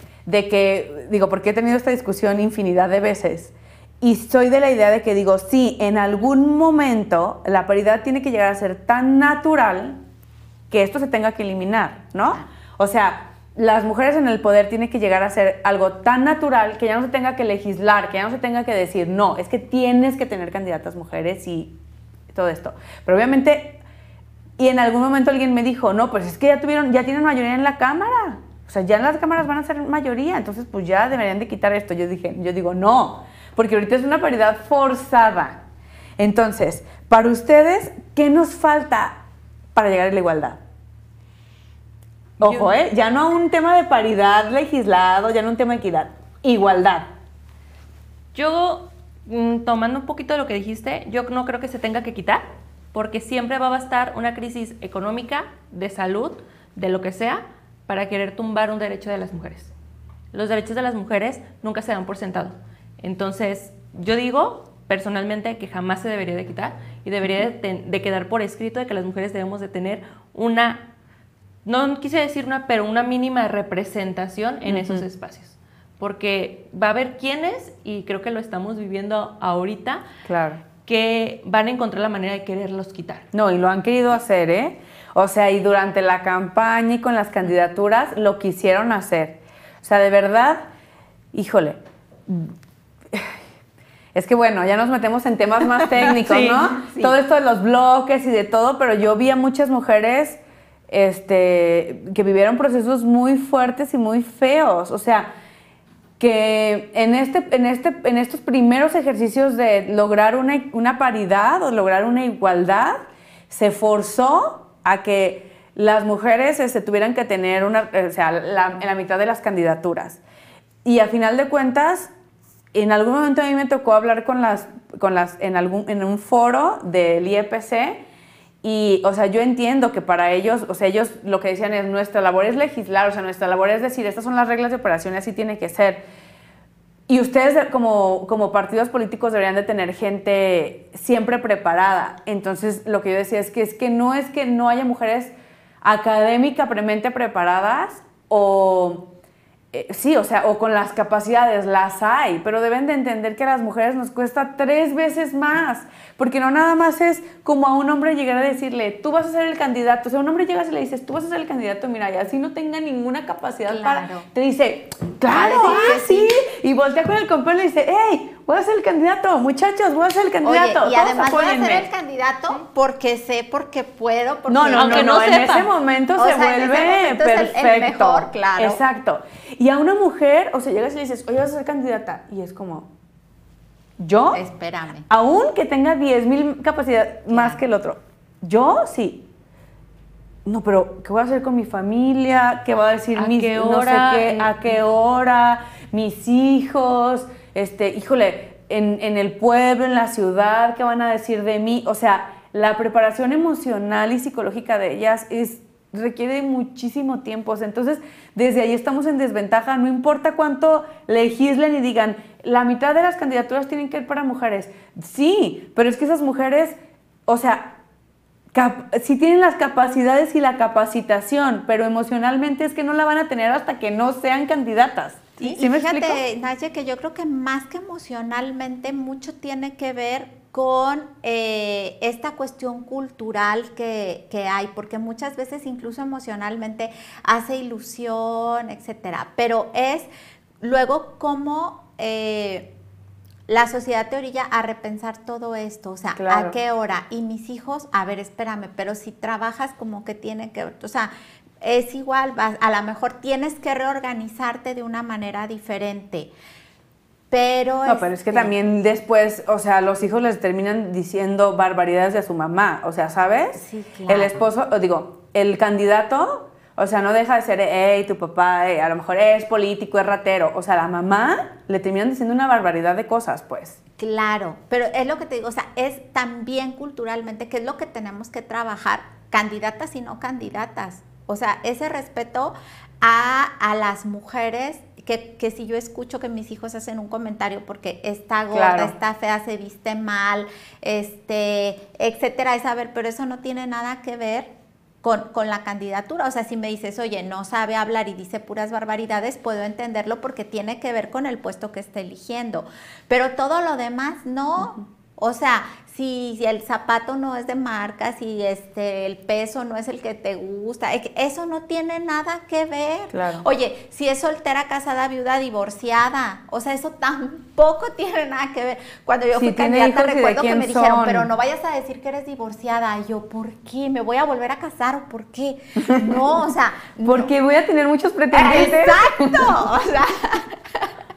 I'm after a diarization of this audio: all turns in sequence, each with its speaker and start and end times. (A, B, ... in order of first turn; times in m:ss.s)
0:00.2-0:10.0 A
0:10.7-0:21.7 A
0:22.3-0:23.8 A
0:24.6-0:35.6 A
0:36.2-0:39.2 A
0:39.7-0:40.6 A
0:42.4-0:42.8 B
0:42.4-0:47.1 A
0:48.3-0:59.7 B
1:00.3-1:10.8 B
1:11.6-1:20.0 B
1:14.6-1:15.0 A
1:20.2-1:20.6 A
1:20.8-1:23.2 B
1:23.3-1:30.6 A
1:31.3-1:32.5 A
1:33.1-1:33.4 A
1:34.1-1:45.3 A
1:36.0-1:36.8 B
1:36.7-1:37.1 C
1:46.2-1:53.0 A
1:53.5-2:00.2 A
2:00.8-2:02.1 A
2:02.7-2:08.0 A
2:08.6-2:16.0 A
2:17.1-2:29.1 A
2:29.7-2:51.9 A
2:43.7-2:44.2 C
2:45.3-2:46.3 C
2:50.4-2:55.5 C
2:54.5-3:02.9 A
2:54.8-2:55.7 B
2:56.2-2:58.8 C
3:04.0-3:04.4 A
3:04.3-3:05.1 C
3:05.1-3:09.2 A
3:07.3-3:07.6 C
3:10.4-3:36.8 A
3:13.1-3:14.8 B
3:37.3-3:37.8 A
3:38.5-3:46.2 A
3:45.4-4:00.1 C
4:00.6-4:02.7 C
4:03.5-4:11.1 C
4:06.2-4:06.5 A
4:11.6-4:16.3 C
4:17.3-4:18.5 C
4:17.8-4:33.8 A
4:23.6-4:24.4 C
4:34.0-5:27.3 C
4:48.5-4:48.9 A
5:13.1-5:13.4 A
5:19.3-5:21.3 A
5:25.9-5:26.2 A
5:27.0-5:29.6 A
5:28.3-5:30.9 C